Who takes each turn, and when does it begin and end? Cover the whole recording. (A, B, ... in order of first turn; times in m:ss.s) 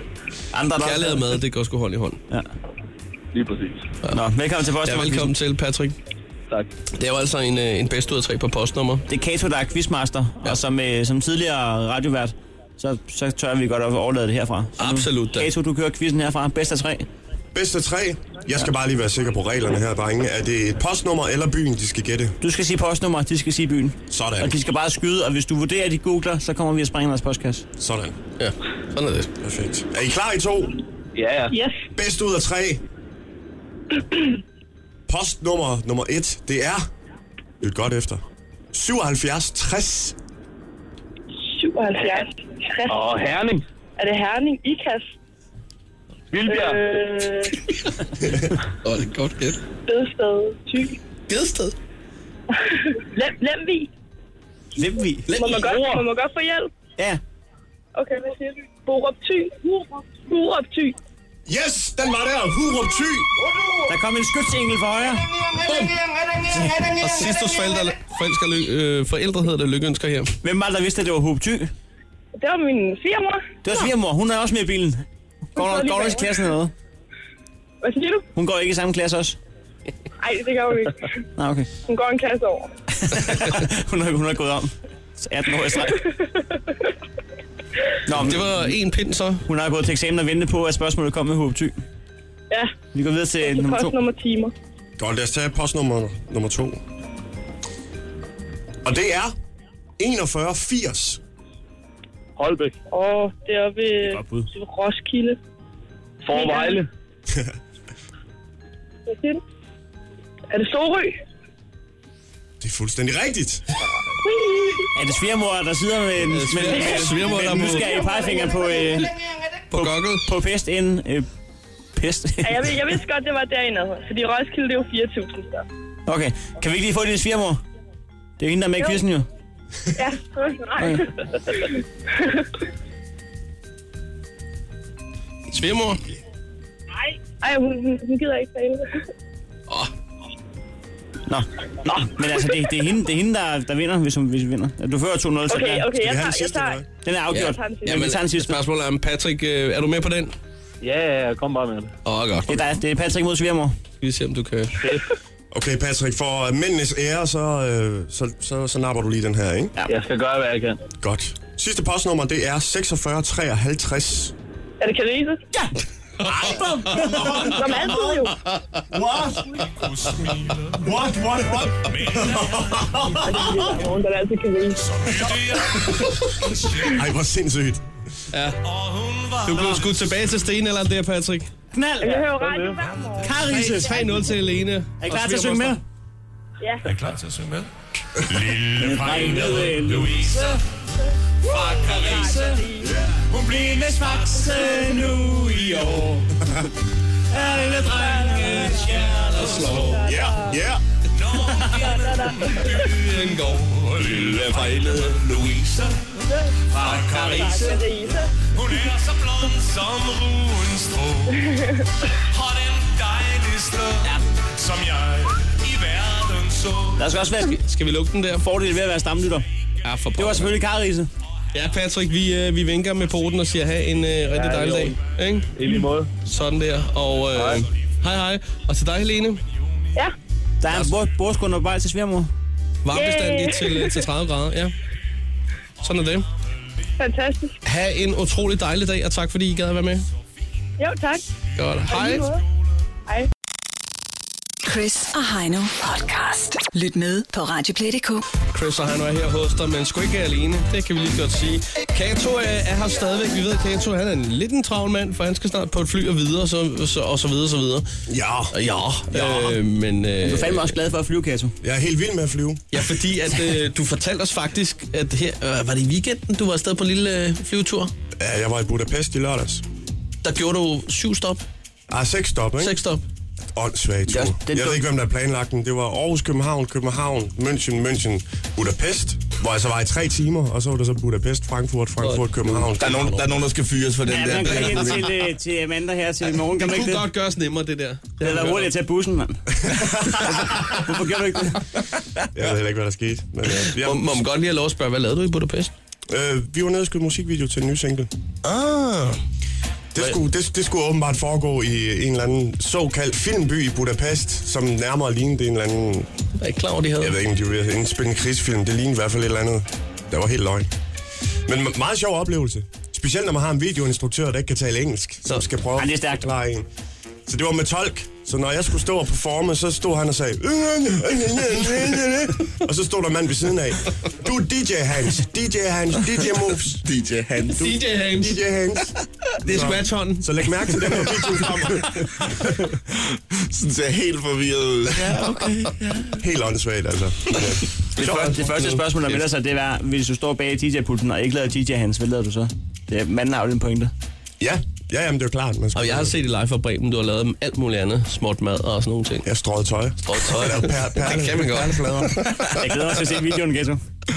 0:00.5-0:01.3 A
0:00.8-0:02.2 B
0:03.3-0:03.8 C
0:04.1-0:05.3 A
0:04.8-0:05.9 B
0:07.0-0:09.0 B
0:09.1-0:17.0 A
0:14.8-0:15.5 B
0:17.5-0:22.3 D
0:22.4-0:27.6 A
0:24.1-0:24.6 D
0:27.8-0:28.2 D
0:28.4-0:29.3 B
0:29.4-0:30.8 D
0:31.2-0:31.5 C
0:31.5-0:31.8 E
0:31.9-0:32.8 D
0:35.1-0:36.9 D
0:37.6-0:38.2 D
0:38.7-0:40.2 D
0:41.5-0:43.0 E
0:42.9-0:43.6 C
0:44.0-0:45.1 E
0:46.3-0:47.2 C
0:46.4-0:47.6 E
0:48.8-0:49.6 B
0:49.9-0:51.0 E
0:51.3-0:51.7 B
0:52.6-0:53.9 E
0:54.8-0:55.3 A
0:55.3-0:55.8 B
0:55.3-0:56.7 E
0:55.6-0:56.0 C
0:57.9-1:01.0 E
1:01.5-1:03.3 D
1:03.8-1:05.3 A
1:05.7-1:05.9 B
1:06.7-1:10.3 B
1:10.4-1:11.7 A
1:12.4-1:13.4 E
1:13.6-1:16.7 A
1:15.6-1:16.5 E
1:17.8-1:18.2 E
1:18.3-1:19.4 A
1:20.2-1:21.2 E
1:21.4-1:21.7 A
1:21.9-1:22.7 E
1:23.0-1:26.1 A
1:26.0-1:26.6 E
1:28.0-1:28.8 A
1:28.1-1:29.4 B
1:29.4-1:31.8 A
1:32.9-1:34.0 A
1:33.4-1:34.5 E
1:35.0-1:36.8 D
1:38.8-1:39.3 D
1:40.0-1:41.2 D
1:42.4-1:42.7 C
1:42.9-1:45.4 E
1:46.2-1:46.9 C
1:46.3-1:46.8 E
1:47.3-1:47.5 D
1:49.0-1:49.4 E
1:50.5-1:51.2 E
1:52.6-1:53.6 D
1:54.2-1:54.8 E
1:54.9-1:59.1 A
1:56.3-1:58.2 B
1:57.9-1:59.0 E
1:59.7-2:00.2 B
1:59.7-2:01.3 A
2:02.0-2:02.7 A
2:02.4-2:05.6 E
2:06.1-2:07.6 A
2:08.4-2:09.2 A
2:10.0-2:12.5 E
2:15.5-2:16.0 B
2:17.4-2:19.0 E
2:21.3-2:25.9 A
2:25.5-2:26.8 E
2:25.9-2:26.8 D
2:27.0-2:28.6 A
2:27.3-2:30.3 B
2:27.4-2:28.0 E
2:30.8-2:31.9 C
2:32.0-2:32.8 B
2:32.5-2:33.8 A
2:34.0-2:34.8 B
2:35.5-2:39.7 D
2:39.9-2:40.8 C
2:41.0-2:44.3 D
2:44.8-2:45.4 E
2:46.2-2:47.2 B
2:46.6-2:46.9 A
2:46.9-2:48.1 F
2:47.1-2:48.4 E
2:48.9-2:49.4 D
2:49.5-2:53.0 F
2:50.8-2:53.3 D
2:53.2-2:54.8 E
2:54.9-2:57.0 F
2:55.8-2:56.1 D
2:56.8-2:57.8 D
2:58.3-2:58.6 B
2:58.6-3:00.2 F
2:59.5-3:01.5 B
2:59.5-2:59.8 A
3:01.7-3:02.3 A
3:02.0-3:04.3 E
3:02.0-3:02.7 C
3:02.8-3:03.1 F
3:03.2-3:04.1 A
3:03.4-3:05.8 B
3:05.0-3:05.8 A
3:06.6-3:06.9 E
3:06.8-3:10.6 F
3:08.8-3:10.5 A
3:11.4-3:16.2 F
3:11.5-3:13.0 E
3:13.4-3:16.2 A
3:17.3-3:19.6 A
3:17.4-3:20.2 F
3:17.9-3:20.6 E
3:20.0-3:20.8 D
3:21.1-3:26.0 F
3:21.6-3:22.9 E
3:23.0-3:25.2 B
3:26.3-3:28.3 E
3:26.7-3:27.8 F
3:27.1-3:27.6 A
3:28.5-3:31.5 F
3:31.5-3:31.8 E
3:32.3-3:37.1 F
3:37.0-3:37.6 A
3:37.4-3:38.4 B
3:38.4-3:39.4 A
3:39.8-3:40.6 B
3:40.2-3:41.1 A
3:41.5-3:45.5 B
3:44.4-3:44.9 A
3:45.5-3:46.2 C
3:46.2-3:49.4 B
3:47.3-3:47.6 C
3:50.6-3:52.3 A
3:52.8-3:54.7 B
3:52.9-3:54.0 E
3:55.8-3:56.2 B
3:57.0-3:57.6 E
3:57.6-4:00.0 B
4:00.8-4:01.2 E
4:01.6-4:02.3 B
4:01.9-4:02.4 E
4:04.6-4:08.2 G
4:08.5-4:17.8 B
4:18.1-4:18.5 D
4:18.5-4:20.7 B
4:19.1-4:19.6 D
4:20.2-4:21.5 A
4:21.6-4:22.8 D
4:22.7-4:27.9 B
4:28.2-4:29.6 D
4:30.2-4:31.4 B
4:31.9-4:32.8 D
4:32.6-4:33.0 B
4:33.5-4:43.4 D
4:34.1-4:34.8 A
4:42.0-4:42.7 B
4:42.8-4:45.1 H
4:44.1-4:47.0 A
4:44.5-4:44.9 B
4:46.5-4:48.7 B
4:48.2-4:49.4 A
4:50.2-4:51.6 A
4:52.3-4:54.1 D
4:53.5-4:55.7 B
4:56.1-4:58.1 D
4:58.4-4:59.2 B
4:59.9-5:06.1 D
5:06.4-5:07.2 B
5:07.0-5:10.7 D
5:11.5-5:16.7 D
5:15.8-5:16.2 A
5:17.2-5:26.8 D
5:26.8-5:27.6 H
5:27.5-5:28.4 B
5:27.6-5:32.7 D
5:29.4-5:32.3 B
5:33.1-5:36.2 H
5:36.2-5:38.3 D
5:38.0-5:43.9 A
5:38.0-5:39.2 B
5:44.4-5:46.1 D
5:45.7-5:49.2 B
5:49.2-5:52.2 D
5:50.0-5:52.2 B
5:52.6-5:53.8 A